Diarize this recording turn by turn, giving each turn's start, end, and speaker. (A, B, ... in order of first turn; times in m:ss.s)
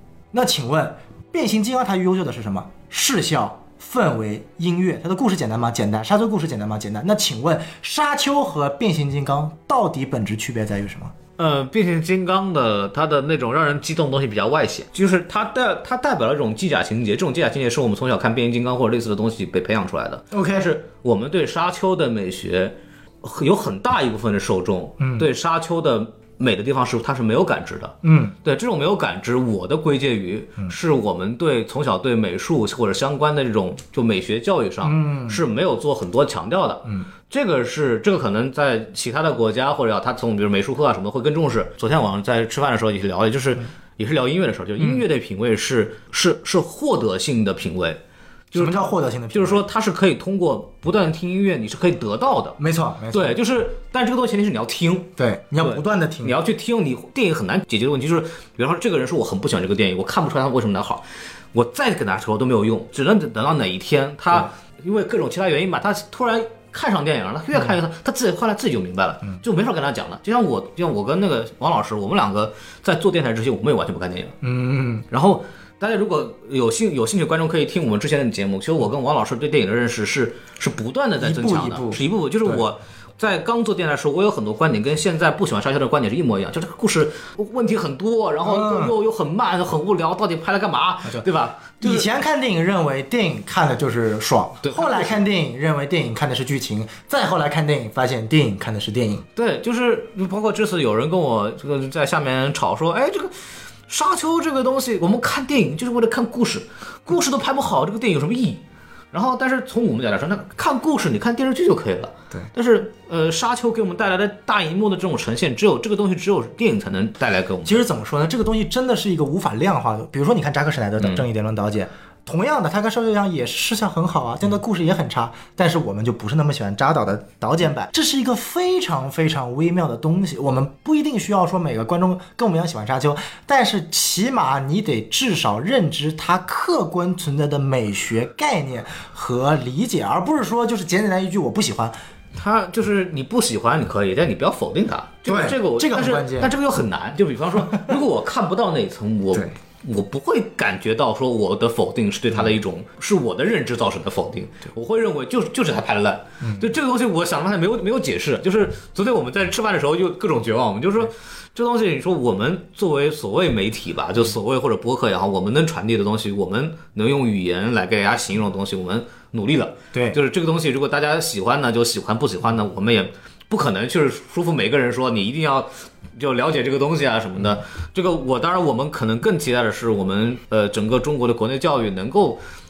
0:00.3-0:11.1 A
0:11.4-0:52.6 B
0:20.3-0:20.7 A
0:25.0-0:25.3 A
0:28.0-0:28.4 A
0:34.8-0:35.4 A
0:48.5-0:49.6 A
0:52.6-0:53.4 A
0:53.1-1:14.4 B
0:55.2-0:56.4 A
1:14.4-1:15.1 A
1:15.1-1:32.1 B
1:21.2-1:22.6 A
1:28.4-1:28.9 A
1:31.8-1:39.3 A
1:34.6-1:35.1 B
1:39.4-1:43.4 B
1:43.9-1:57.9 B
1:57.6-2:21.9 A
2:22.4-3:02.4 B
2:25.3-2:26.5 A
2:36.4-2:36.7 A
2:49.9-2:50.2 A